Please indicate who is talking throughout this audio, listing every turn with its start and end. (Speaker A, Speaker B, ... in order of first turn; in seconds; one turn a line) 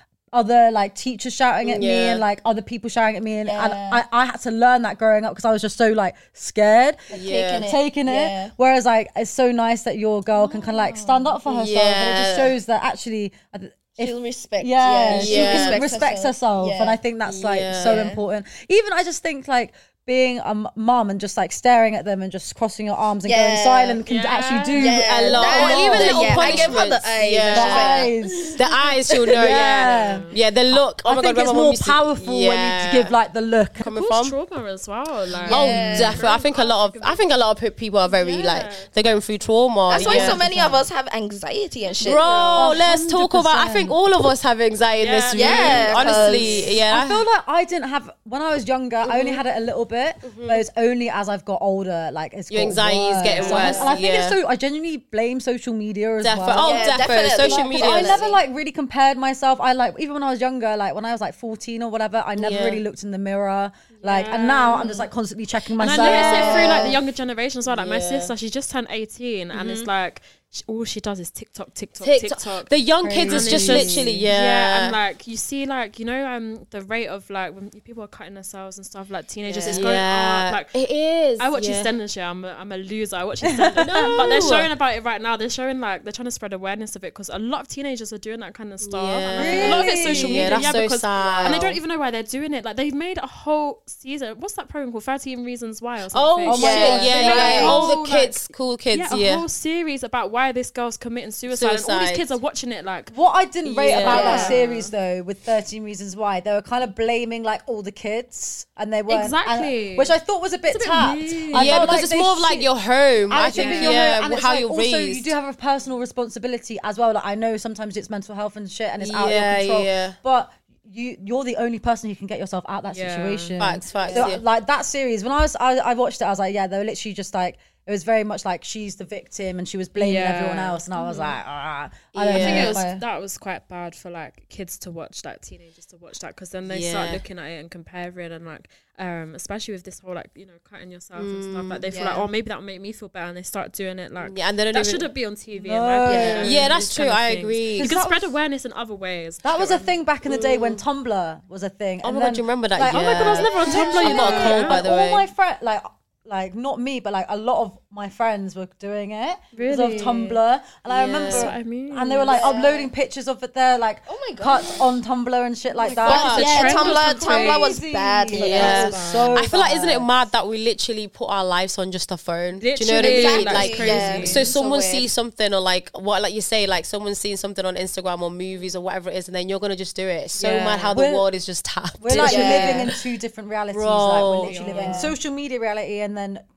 Speaker A: 0.3-7.0
Speaker B: 1.6-2.2
Speaker C: 3.4-4.0
Speaker C: 7.1-8.5
Speaker B: 7.1-7.7
Speaker A: 7.7-26.7
Speaker C: 10.4-11.4
Speaker B: 11.5-12.6
Speaker C: 14.0-17.0
Speaker B: 15.1-15.8
Speaker B: 17.3-18.0
Speaker C: 17.9-18.2
Speaker C: 23.2-24.0
Speaker D: 24.1-26.9
Speaker C: 24.7-28.6
Speaker B: 24.9-33.1
Speaker A: 27.5-28.6
Speaker A: 29.3-33.9
Speaker D: 29.7-30.4
Speaker B: 33.8-34.4
Speaker D: 33.8-37.2
Speaker B: 35.5-40.5
Speaker C: 35.5-36.2
Speaker D: 38.0-38.9
Speaker C: 39.9-42.6
Speaker A: 40.0-40.9
Speaker D: 40.0-40.3
Speaker D: 41.9-42.8
Speaker B: 42.0-47.2
Speaker A: 42.6-44.0
Speaker D: 45.0-46.8
Speaker C: 45.4-46.8
Speaker A: 46.9-67.0
Speaker B: 50.2-50.6
Speaker B: 52.5-54.4
Speaker D: 53.3-53.9
Speaker B: 56.2-58.2
Speaker C: 56.6-58.4
Speaker B: 62.4-62.8
Speaker D: 64.0-65.0
Speaker D: 65.8-72.7
Speaker B: 65.8-67.0
Speaker C: 66.4-66.8
Speaker B: 67.7-68.3
Speaker B: 69.5-69.9
Speaker B: 72.0-75.0
Speaker A: 73.0-74.3
Speaker D: 73.3-80.8
Speaker C: 79.5-79.9
Speaker B: 79.7-81.9
Speaker D: 81.4-104.9
Speaker A: 83.4-84.2
Speaker B: 83.8-84.7
Speaker B: 88.8-91.8
Speaker A: 89.3-90.7
Speaker C: 91.2-91.6
Speaker B: 96.1-99.5
Speaker A: 96.5-97.9
Speaker C: 96.5-97.8
Speaker B: 101.5-102.3
Speaker A: 103.1-112.7
Speaker B: 103.7-104.5
Speaker C: 104.0-104.6
Speaker D: 109.1-110.1
Speaker D: 110.7-112.1
Speaker B: 111.5-115.3
Speaker A: 113.3-133.0
Speaker D: 113.3-114.1
Speaker B: 119.0-120.2
Speaker D: 122.9-124.1
Speaker B: 123.6-124.4
Speaker C: 124.0-124.3
Speaker D: 130.0-131.4
Speaker B: 132.1-132.8
Speaker D: 132.3-150.7
Speaker B: 136.7-137.2
Speaker B: 141.2-141.8
Speaker C: 141.9-142.3
Speaker B: 144.2-145.1
Speaker A: 145.6-146.9
Speaker C: 146.1-146.5
Speaker B: 146.4-148.0
Speaker A: 147.7-148.3
Speaker A: 149.4-170.1
Speaker B: 152.0-155.3
Speaker D: 152.9-154.8
Speaker D: 159.6-160.4
Speaker B: 160.9-161.5
Speaker D: 161.2-162.4
Speaker C: 162.3-162.9
Speaker C: 164.1-164.9
Speaker D: 165.8-167.7
Speaker C: 165.9-169.0
Speaker B: 166.0-166.8
Speaker B: 168.3-183.0
Speaker D: 168.4-169.4
Speaker D: 172.6-174.5
Speaker C: 172.9-175.1
Speaker A: 173.9-174.3
Speaker D: 180.4-180.9
Speaker A: 180.9-181.3
Speaker A: 182.0-186.4
Speaker C: 182.2-182.9
Speaker B: 183.7-185.1
Speaker D: 184.4-185.1
Speaker C: 184.7-185.1